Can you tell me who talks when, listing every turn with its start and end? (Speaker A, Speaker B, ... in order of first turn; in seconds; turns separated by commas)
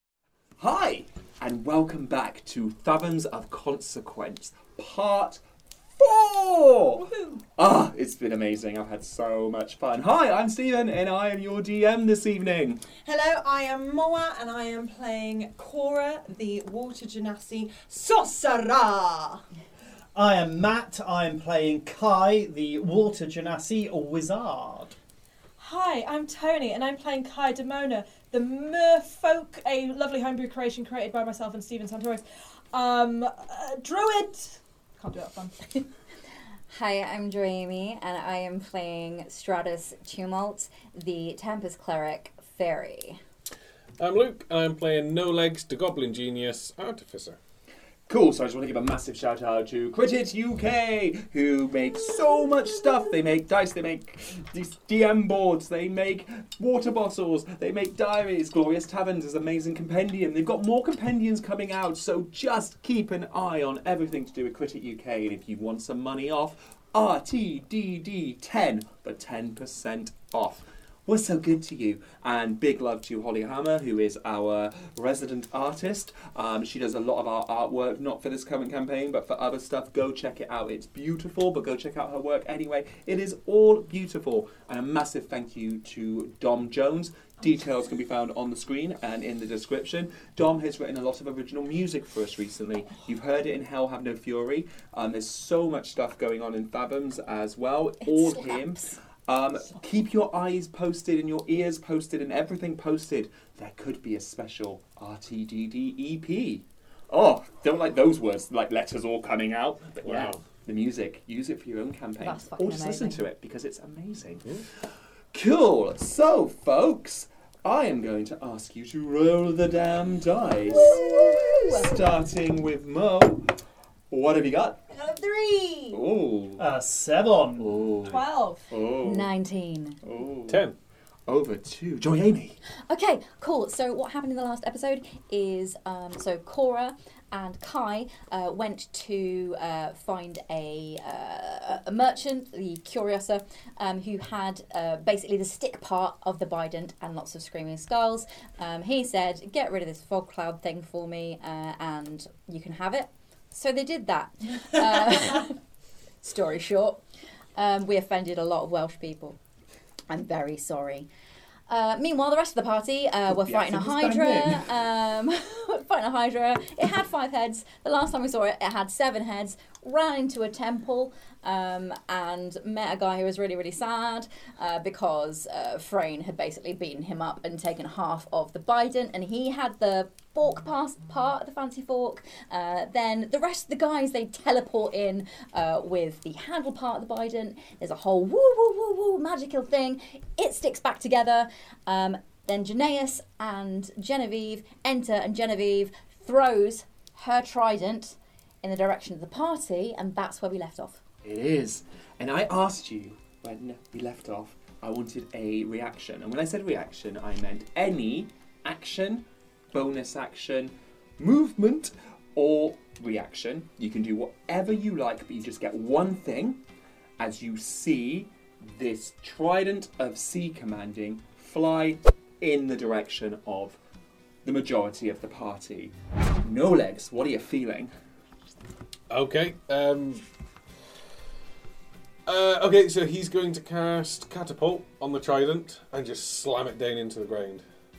Speaker A: 0.6-5.4, Speaker A: 6.0-12.8, Speaker B: 7.0-7.4, Speaker B: 13.1-19.4, Speaker C: 20.1-25.0, Speaker D: 25.6-35.8, Speaker E: 36.7-43.2, Speaker F: 44.0-47.4, Speaker A: 48.1-114.5, Speaker E: 98.0-99.0, Speaker F: 110.0-110.4, Speaker E: 112.2-113.2, Speaker A: 115.3-121.0, Speaker E: 120.7-122.0, Speaker B: 120.8-121.8, Speaker A: 121.6-123.5, Speaker A: 124.1-124.8, Speaker B: 124.9-126.0, Speaker A: 125.9-126.7, Speaker C: 126.6-127.8, Speaker A: 127.6-129.3, Speaker D: 128.0-128.7, Speaker E: 129.0-130.0, Speaker A: 130.0-130.7, Speaker F: 130.5-130.8, Speaker A: 131.3-132.6, Speaker E: 132.9-155.6, Speaker E: 156.2-157.0, Speaker E: 157.6-159.4, Speaker E: 160.1-161.1, Speaker E: 161.7-201.0, Speaker A: 163.3-164.7, Speaker A: 201.2-216.6, Speaker A: 217.2-223.8, Speaker A: 224.4-227.9, Speaker F: 229.1-230.2, Speaker F: 232.3-237.6